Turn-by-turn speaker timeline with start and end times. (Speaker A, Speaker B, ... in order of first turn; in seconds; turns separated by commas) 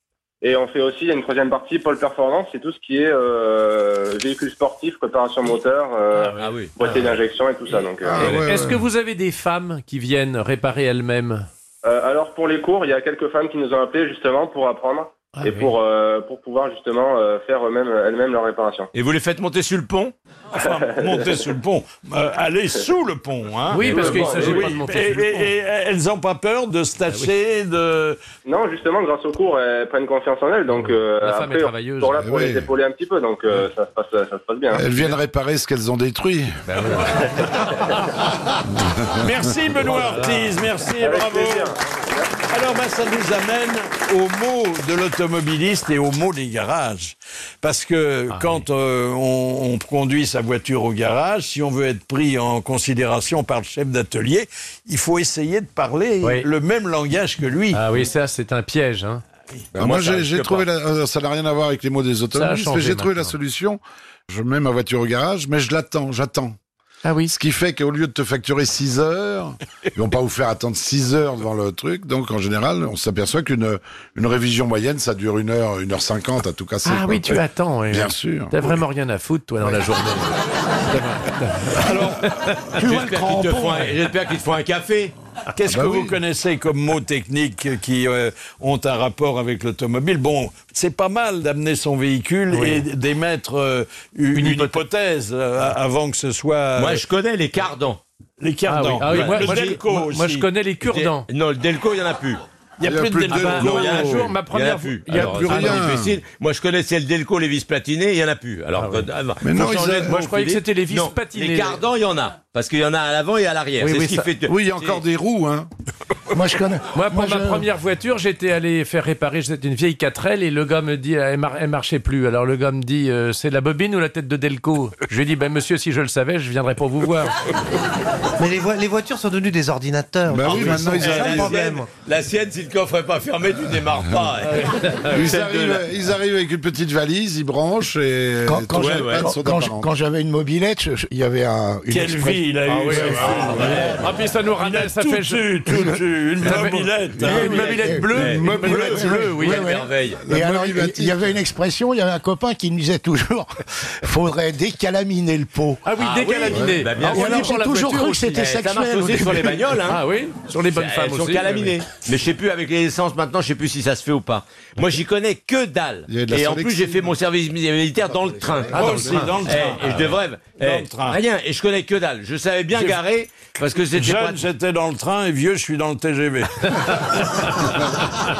Speaker A: 0.4-8.2, Speaker B: 6.1-7.1, Speaker C: 6.4-6.7, Speaker D: 8.0-8.9, Speaker B: 8.2-11.5, Speaker C: 8.2-8.5, Speaker A: 11.8-18.9, Speaker B: 15.3-15.7, Speaker C: 18.9-20.1, Speaker E: 20.5-28.2, Speaker A: 20.6-21.3, Speaker B: 23.7-25.5, Speaker C: 23.8-24.7, Speaker A: 23.9-24.6, Speaker A: 28.4-34.9, Speaker B: 30.8-32.2, Speaker D: 32.2-32.7, Speaker D: 34.7-36.6, Speaker B: 36.7-37.5, Speaker D: 38.8-39.3, Speaker E: 39.2-41.7, Speaker B: 39.8-40.6, Speaker A: 41.0-42.3, Speaker E: 42.5-57.8, Speaker B: 48.3-48.6, Speaker B: 56.2-56.5, Speaker B: 57.7-59.2, Speaker C: 59.8-60.6, Speaker D: 59.8-66.5, Speaker B: 62.3-63.3, Speaker B: 67.0-67.3, Speaker D: 67.3-78.7, Speaker B: 76.8-80.3, Speaker D: 79.6-79.9, Speaker B: 80.9-82.6, Speaker E: 81.8-82.2, Speaker F: 82.8-83.8, Speaker C: 82.8-85.1, Speaker E: 85.5-97.0, Speaker D: 85.7-86.1, Speaker B: 92.5-92.8, Speaker B: 94.3-94.8, Speaker C: 96.8-98.0, Speaker E: 98.4-100.5, Speaker B: 98.7-101.3, Speaker C: 99.0-99.8, Speaker C: 100.8-102.4, Speaker E: 102.8-104.2, Speaker D: 102.8-104.3, Speaker C: 103.3-115.0, Speaker B: 103.4-106.0, Speaker D: 105.1-106.2, Speaker B: 108.8-111.8, Speaker D: 109.4-110.1, Speaker B: 113.8-114.3, Speaker D: 114.5-115.7, Speaker F: 116.3-117.6, Speaker B: 116.9-127.3, Speaker G: 128.4-131.9, Speaker D: 130.3-131.5, Speaker C: 130.4-135.8, Speaker B: 134.5-135.0, Speaker D: 135.1-139.9, Speaker F: 138.4-144.0, Speaker C: 138.7-139.3, Speaker E: 141.9-143.9, Speaker B: 142.7-145.7, Speaker C: 143.2-143.9, Speaker E: 144.5-147.6, Speaker B: 146.4-149.6, Speaker F: 147.3-153.5, Speaker D: 147.3-151.4, Speaker C: 147.3-150.3, Speaker F: 154.0-155.8, Speaker B: 155.8-158.5, Speaker C: 155.9-157.5, Speaker D: 156.5-156.8, Speaker F: 157.1-159.6, Speaker C: 158.3-160.0, Speaker B: 159.8-161.8, Speaker C: 160.7-174.4, Speaker D: 166.1-167.0, Speaker E: 168.7-169.9, Speaker B: 168.7-170.1, Speaker E: 170.6-171.2, Speaker E: 173.9-177.2